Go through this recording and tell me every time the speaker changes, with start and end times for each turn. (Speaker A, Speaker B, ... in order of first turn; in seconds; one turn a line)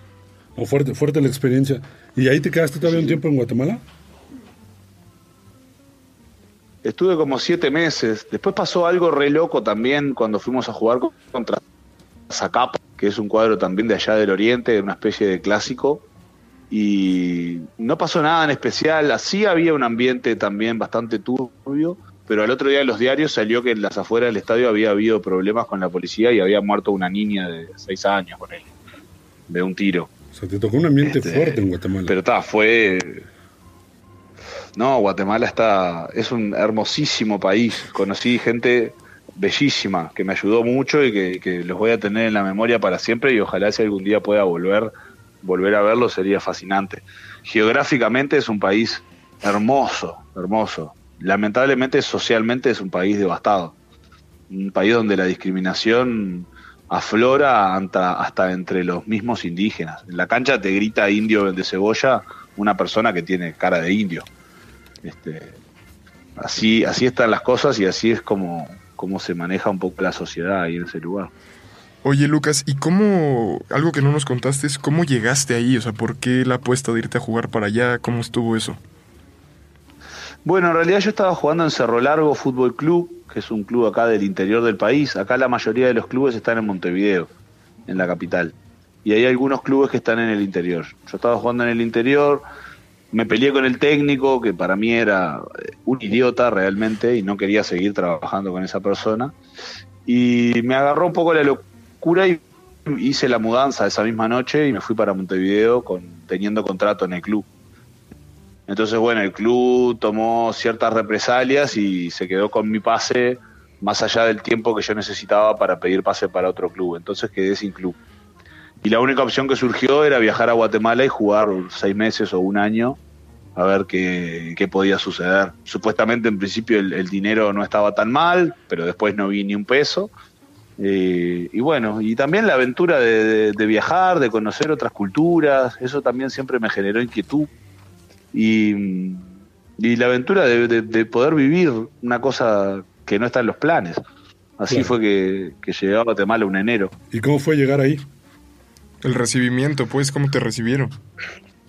Speaker A: 0.6-3.8
Speaker B: 6.8-11.6
Speaker B: 12.3-16.0
Speaker B: 16.7-28.7
Speaker B: 29.5-30.1
Speaker A: 30.3-32.1
Speaker B: 31.0-33.3
Speaker B: 34.8-44.9
Speaker B: 45.4-53.8
Speaker B: 54.5-64.3
Speaker B: 65.0-65.6
Speaker B: 66.4-71.3
Speaker C: 72.0-78.8
Speaker B: 80.4-87.3
Speaker B: 87.9-92.4
Speaker B: 93.1-99.3
Speaker B: 100.0-107.5
Speaker B: 108.7-118.0
Speaker B: 118.8-123.0
Speaker B: 123.5-130.1
Speaker B: 130.8-137.5
Speaker B: 138.3-144.0
Speaker B: 144.6-146.9
Speaker A: 147.1-148.1
Speaker C: 149.0-150.9